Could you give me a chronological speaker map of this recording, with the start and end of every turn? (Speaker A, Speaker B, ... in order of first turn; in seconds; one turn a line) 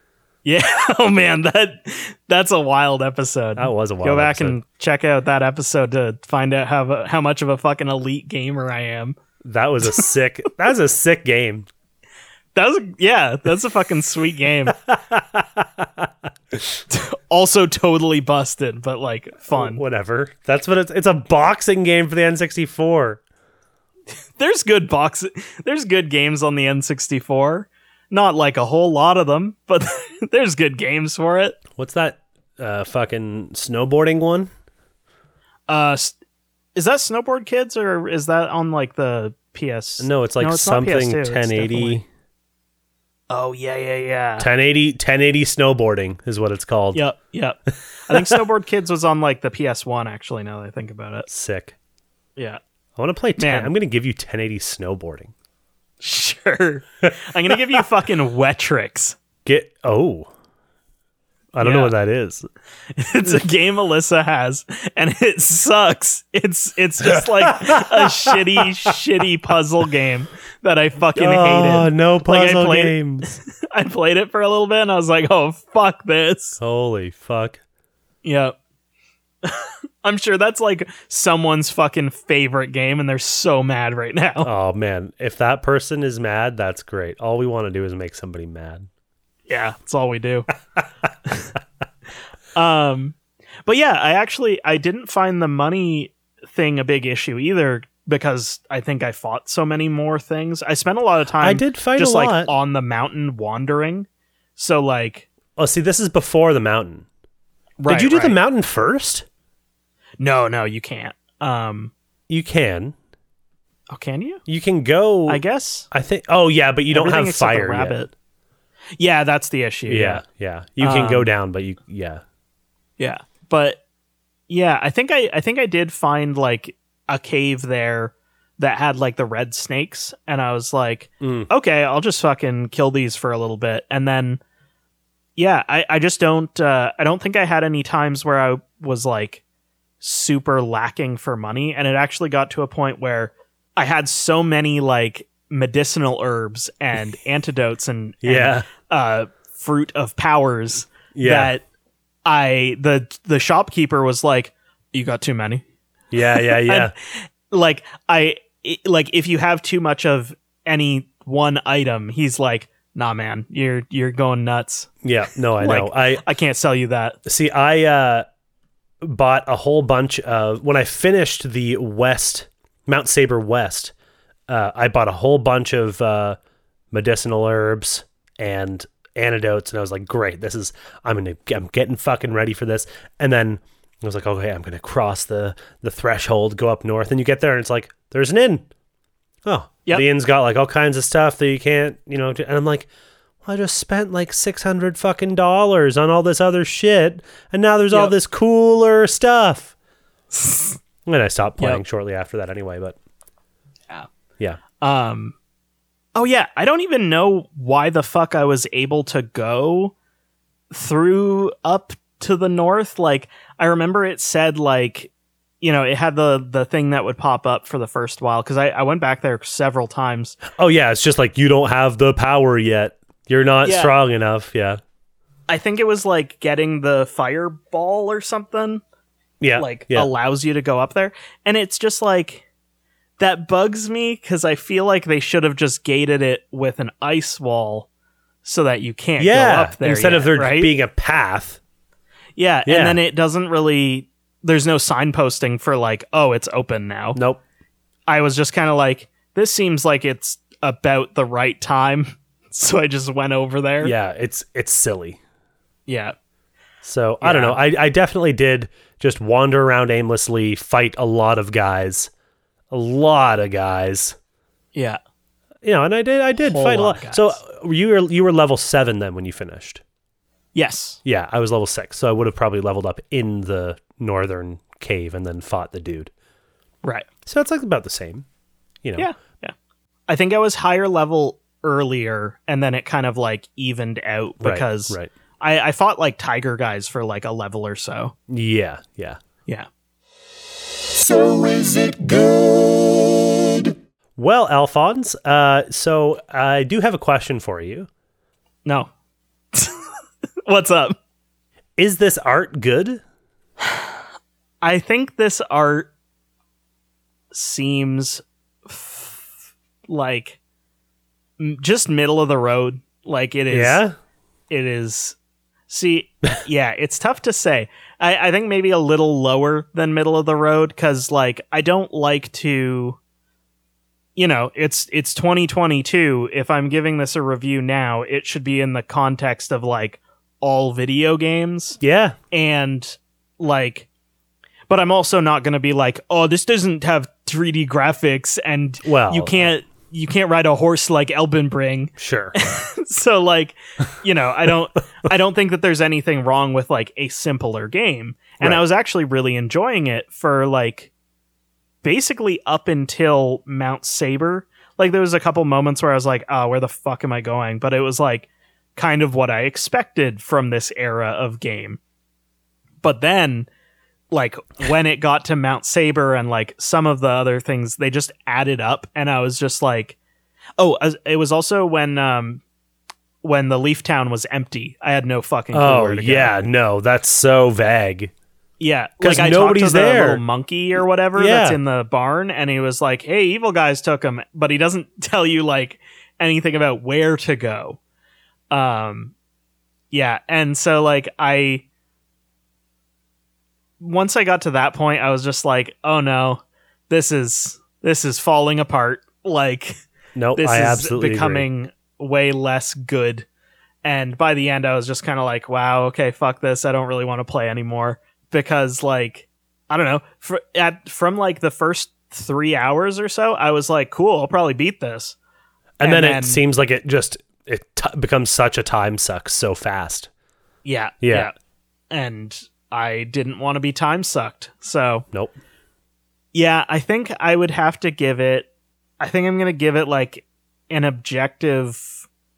Speaker A: 0.5-9.2
Speaker B: 3.6-4.6
Speaker B: 9.4-11.7
Speaker A: 12.6-14.8
Speaker B: 14.8-16.8
Speaker A: 16.9-19.8
Speaker B: 19.5-23.2
Speaker A: 24.4-31.6
Speaker B: 31.8-34.5
Speaker A: 35.7-36.2
Speaker A: 36.8-42.0
Speaker B: 40.0-42.1
Speaker A: 43.3-44.5
Speaker B: 44.4-47.0
Speaker A: 46.9-51.3
Speaker B: 48.1-48.4
Speaker B: 51.3-51.8
Speaker B: 53.0-55.3
Speaker A: 53.4-53.7
Speaker A: 56.0-59.2
Speaker B: 59.5-60.3
Speaker B: 61.5-62.5
Speaker A: 61.6-61.9
Speaker A: 63.0-76.6
Speaker B: 67.1-68.6
Speaker B: 71.2-73.3
Speaker B: 76.6-77.6
Speaker A: 78.2-78.6
Speaker A: 79.4-84.5
Speaker B: 84.4-88.9
Speaker A: 89.5-90.5
Speaker A: 92.5-105.3
Speaker B: 101.4-102.5
Speaker B: 105.6-107.1
Speaker A: 107.8-108.4
Speaker B: 107.9-109.3
Speaker A: 110.2-111.9
Speaker B: 112.3-113.0
Speaker A: 113.9-114.4
Speaker B: 114.5-118.0
Speaker A: 115.3-115.9
Speaker A: 116.9-118.1
Speaker A: 119.0-120.2
Speaker B: 119.9-122.2
Speaker A: 120.8-121.3
Speaker A: 123.0-123.8
Speaker A: 124.5-134.4
Speaker B: 131.2-131.5
Speaker A: 135.4-139.4
Speaker A: 140.0-151.6
Speaker B: 148.2-148.7
Speaker B: 151.2-151.5
Speaker A: 152.3-155.6
Speaker B: 156.1-156.9
Speaker A: 156.3-164.9
Speaker B: 165.0-166.2
Speaker A: 165.6-167.2
Speaker B: 167.2-168.2
Speaker B: 169.0-173.9
Speaker B: 174.5-176.4
Speaker B: 176.9-188.7
Speaker B: 189.4-192.9
Speaker B: 193.4-199.7
Speaker A: 200.3-200.8
Speaker B: 201.1-203.0
Speaker A: 204.8-205.3
Speaker A: 206.2-209.9
Speaker A: 210.7-220.4
Speaker B: 220.5-224.8
Speaker A: 223.6-223.9
Speaker A: 225.5-228.8
Speaker B: 229.4-230.1
Speaker A: 229.6-232.4
Speaker A: 233.2-237.9
Speaker A: 238.4-240.7
Speaker B: 239.2-241.6
Speaker A: 242.4-247.2
Speaker B: 242.7-243.0
Speaker B: 247.2-247.4
Speaker A: 248.1-253.9
Speaker B: 253.8-255.2
Speaker A: 255.9-256.1
Speaker B: 256.8-262.1
Speaker A: 257.2-257.6
Speaker B: 262.7-264.2
Speaker B: 265.6-269.8
Speaker A: 266.4-267.4
Speaker A: 270.6-271.0
Speaker B: 271.1-276.1
Speaker B: 277.3-278.3
Speaker B: 278.8-279.1
Speaker A: 279.0-279.5
Speaker A: 280.1-288.1
Speaker B: 284.4-285.1
Speaker B: 288.3-289.2
Speaker A: 291.0-292.5
Speaker B: 294.2-297.9
Speaker A: 298.7-298.9
Speaker A: 299.5-299.9
Speaker A: 300.5-301.0
Speaker B: 301.8-303.0
Speaker A: 304.6-305.9
Speaker A: 307.3-309.3
Speaker A: 309.9-310.4
Speaker A: 311.4-313.8
Speaker B: 313.5-313.9
Speaker A: 314.5-315.2
Speaker A: 315.7-323.0
Speaker A: 324.2-331.8
Speaker B: 331.8-332.2
Speaker A: 332.3-333.9
Speaker A: 334.7-350.9
Speaker B: 338.8-339.5
Speaker B: 342.0-342.4
Speaker A: 351.8-361.8
Speaker A: 362.8-363.5
Speaker A: 364.1-370.0
Speaker A: 370.6-372.4
Speaker A: 373.2-376.3
Speaker B: 375.5-378.1
Speaker A: 378.6-387.8
Speaker B: 379.0-380.2
Speaker B: 381.2-381.6
Speaker A: 388.5-389.1
Speaker A: 389.9-391.6
Speaker A: 393.8-399.7
Speaker B: 400.1-401.4
Speaker A: 400.4-403.3
Speaker A: 403.8-415.2
Speaker B: 415.8-420.1
Speaker A: 415.8-416.4
Speaker A: 420.6-421.3
Speaker B: 421.0-421.3
Speaker A: 421.9-425.1
Speaker A: 426.3-428.5
Speaker A: 429.0-432.1